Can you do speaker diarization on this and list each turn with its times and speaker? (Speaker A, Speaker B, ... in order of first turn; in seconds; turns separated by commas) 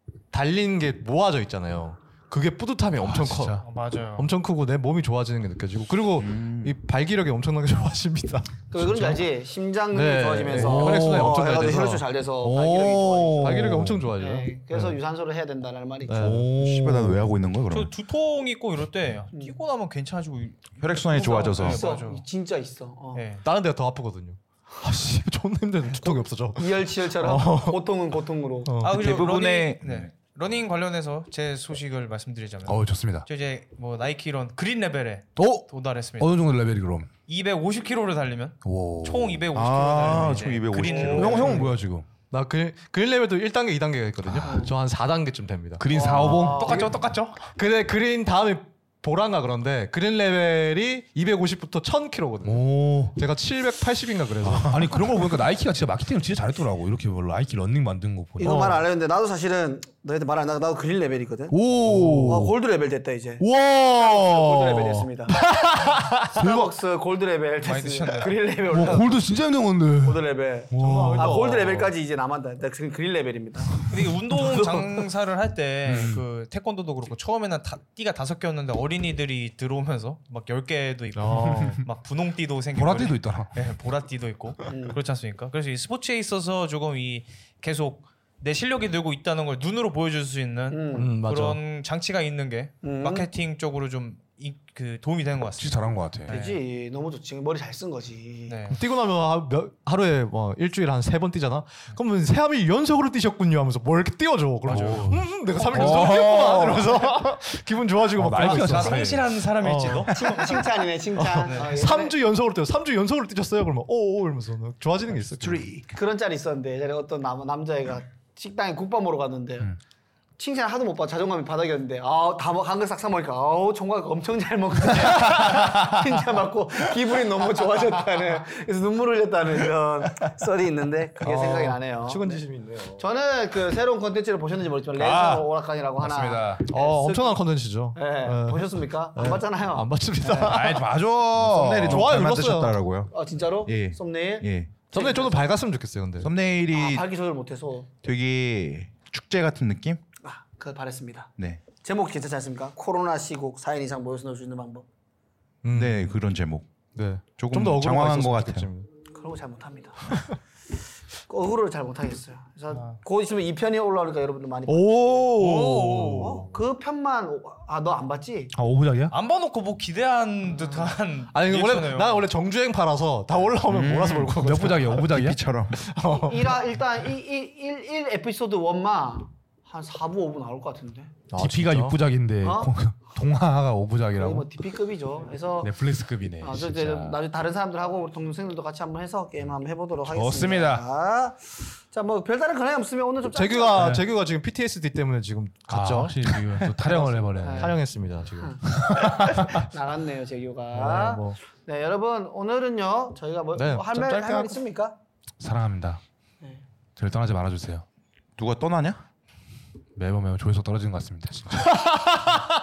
Speaker A: 0.3-9.2, Speaker B: 3.0-3.6, Speaker C: 3.6-4.3, Speaker D: 6.2-6.8, Speaker E: 8.7-16.5, Speaker A: 9.9-14.9, Speaker B: 10.5-11.4, Speaker B: 12.4-14.1, Speaker A: 16.1-16.6, Speaker B: 16.2-17.2, Speaker D: 16.6-17.9, Speaker C: 17.7-22.2, Speaker D: 20.8-21.9, Speaker E: 21.1-23.2, Speaker C: 23.1-23.4, Speaker A: 23.4-27.8, Speaker E: 26.6-28.8, Speaker A: 28.6-28.9, Speaker C: 28.8-36.4, Speaker D: 28.9-30.1, Speaker B: 32.6-33.3, Speaker B: 35.4-37.1, Speaker C: 37.3-41.7, Speaker B: 38.6-39.4, Speaker D: 39.5-41.7, Speaker B: 40.8-42.0, Speaker A: 41.2-41.7, Speaker A: 42.3-45.9, Speaker E: 44.5-44.7, Speaker B: 45.8-46.8, Speaker E: 45.9-47.0, Speaker C: 46.2-47.4, Speaker A: 47.5-55.1, Speaker B: 52.4-53.2, Speaker B: 54.5-58.8, Speaker E: 58.4-61.6, Speaker B: 61.5-62.5, Speaker A: 61.8-62.4, Speaker E: 62.2-65.5, Speaker A: 63.4-65.1, Speaker B: 65.3-66.7, Speaker E: 66.2-69.4, Speaker C: 67.6-68.4, Speaker B: 68.6-71.7, Speaker E: 70.0-74.8, Speaker A: 70.7-71.9, Speaker C: 73.8-96.6, Speaker B: 75.8-76.2, Speaker A: 81.1-81.8, Speaker B: 81.5-81.8, Speaker B: 82.7-83.5, Speaker E: 84.7-85.0, Speaker E: 90.7-91.1, Speaker A: 90.9-91.6, Speaker E: 92.8-93.3, Speaker B: 95.6-96.3, Speaker E: 96.3-98.6, Speaker C: 98.5-98.8, Speaker A: 98.7-110.2, Speaker C: 104.7-105.2, Speaker B: 104.7-107.1, Speaker C: 105.8-106.1, Speaker B: 108.2-109.3, Speaker C: 108.4-110.6, Speaker E: 110.1-112.2, Speaker A: 111.1-115.7, Speaker C: 111.4-111.7, Speaker E: 115.8-119.7, Speaker E: 120.4-132.4, Speaker B: 125.4-125.9, Speaker A: 131.2-133.0, Speaker E: 133.0-137.4, Speaker B: 134.9-136.6, Speaker A: 136.7-140.9, Speaker E: 137.9-140.7, Speaker B: 140.4-142.1, Speaker D: 141.3-143.1, Speaker A: 141.7-142.8, Speaker E: 143.1-145.4, Speaker D: 143.6-144.7, Speaker A: 144.9-146.3, Speaker D: 146.2-147.1, Speaker E: 146.7-147.9, Speaker D: 148.0-150.0, Speaker E: 150.2-154.8, Speaker A: 155.6-156.2, Speaker D: 155.7-156.7, Speaker A: 156.9-158.9, Speaker D: 157.4-158.7, Speaker E: 159.1-160.2, Speaker E: 161.3-165.4, Speaker C: 162.7-163.0, Speaker A: 164.7-166.5, Speaker C: 165.3-166.5, Speaker E: 166.1-168.5, Speaker B: 168.5-169.1, Speaker C: 169.1-172.2, Speaker A: 171.3-175.1, Speaker D: 173.7-175.8, Speaker B: 174.3-175.4, Speaker A: 175.7-176.6, Speaker E: 176.1-181.1, Speaker A: 181.3-182.0, Speaker B: 181.3-184.6, Speaker E: 182.4-182.7, Speaker E: 184.2-185.8, Speaker B: 185.6-187.2, Speaker E: 186.4-194.0, Speaker B: 190.0-190.8, Speaker A: 193.2-198.6, Speaker B: 195.7-197.8, Speaker E: 197.4-197.8, Speaker E: 198.4-205.0, Speaker B: 198.6-199.7, Speaker A: 200.7-201.4, Speaker A: 203.5-204.6, Speaker B: 205.4-206.0, Speaker B: 206.9-207.8, Speaker D: 208.4-209.0, Speaker B: 209.9-212.3, Speaker A: 211.8-212.3